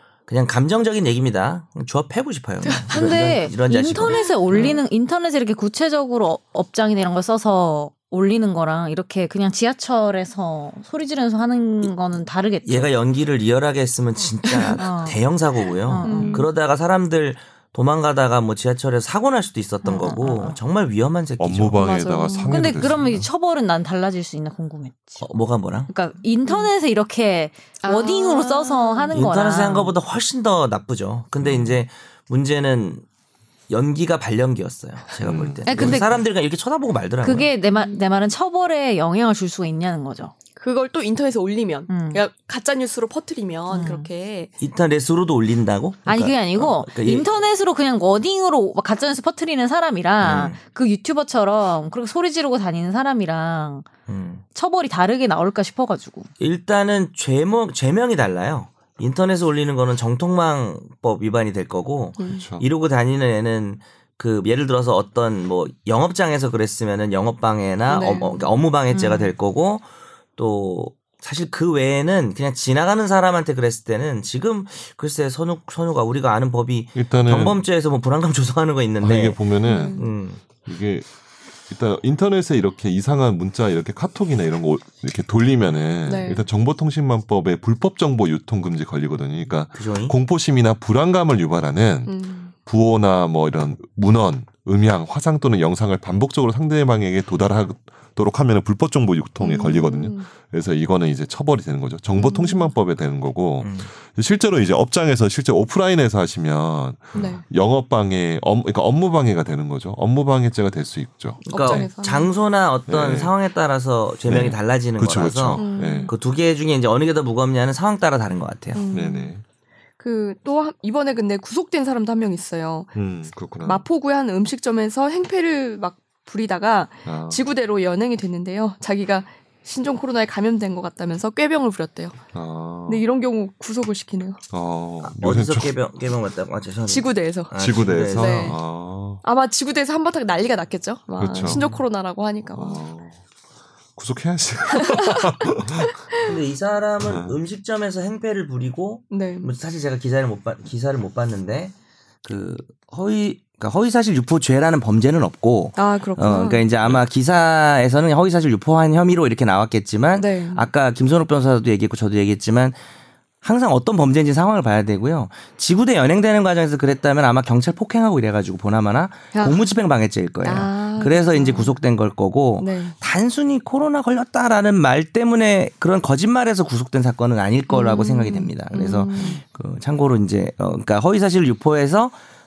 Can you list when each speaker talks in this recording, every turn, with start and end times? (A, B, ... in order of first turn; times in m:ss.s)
0:00.3-0:04.8 A
0:02.9-0:12.9 B
0:12.6-0:22.0 A
0:14.8-0:15.2 B
0:15.8-0:16.4 B
0:16.0-0:16.4 C
0:16.1-0:16.4 D
0:19.8-0:20.6 B
0:21.4-0:23.3 D
0:21.7-0:22.6 C
0:22.5-0:25.3 B
0:25.2-0:25.9 A
0:25.8-0:29.9 B
0:27.8-0:29.1 C
0:29.1-0:33.0 A
0:31.4-0:31.8 D
0:33.7-0:37.5 A
0:35.2-0:36.1 D
0:35.6-0:36.2 B
0:37.2-0:40.3 B
0:37.7-0:38.0 C
0:40.6-0:44.5 C
0:41.9-0:42.2 B
0:43.7-0:44.1 B
0:44.6-0:47.3 A
0:46.1-0:53.8 B
0:50.2-0:50.6 A
0:54.1-0:54.4 A
0:54.5-0:56.3 B
0:56.4-1:09.8 A
1:02.2-1:02.4 C
1:02.4-1:02.6 D
1:07.9-1:08.5 C
1:08.9-1:09.3 B
1:10.4-1:20.4 A
1:16.9-1:17.6 D
1:19.0-1:21.1 D
1:19.6-1:20.0 C
1:21.7-1:51.9 D
1:26.0-1:26.4 C
1:29.7-1:30.1 A
1:32.1-1:32.5 C
1:39.4-1:40.3 C
1:42.1-1:42.7 C
1:43.6-1:43.9 A
1:47.1-1:47.4 C
1:51.4-1:58.8 A
1:51.5-1:52.3 C
1:52.9-1:53.3 D
1:54.2-1:56.1 D
1:55.6-1:56.1 C
1:58.7-1:59.3 C
1:58.9-1:59.4 D
2:00.0-2:03.0 C
2:02.9-2:03.8 D
2:03.6-2:12.2 C
2:07.0-2:07.4 D
2:12.3-2:13.0 D
2:12.8-2:14.4 C
2:14.5-2:15.8 D
2:15.0-2:18.6 A
2:16.8-2:17.5 C
2:17.5-2:19.2 D
2:18.1-2:18.6 C
2:19.2-2:22.8 C
2:21.2-2:21.8 D
2:21.5-2:21.8 A
2:22.5-2:23.2 D
2:24.0-2:26.0 D
2:24.9-2:26.4 C
2:26.2-2:31.7 A
2:27.0-2:27.3 D
2:29.1-2:29.5 C
2:32.2-2:42.8 A
2:35.8-2:36.6 C
2:40.2-2:40.6 C
2:43.4-3:02.2 A
2:49.3-2:49.6 C
2:50.4-2:51.8 C
2:52.6-2:52.9 C
2:57.7-2:59.4 C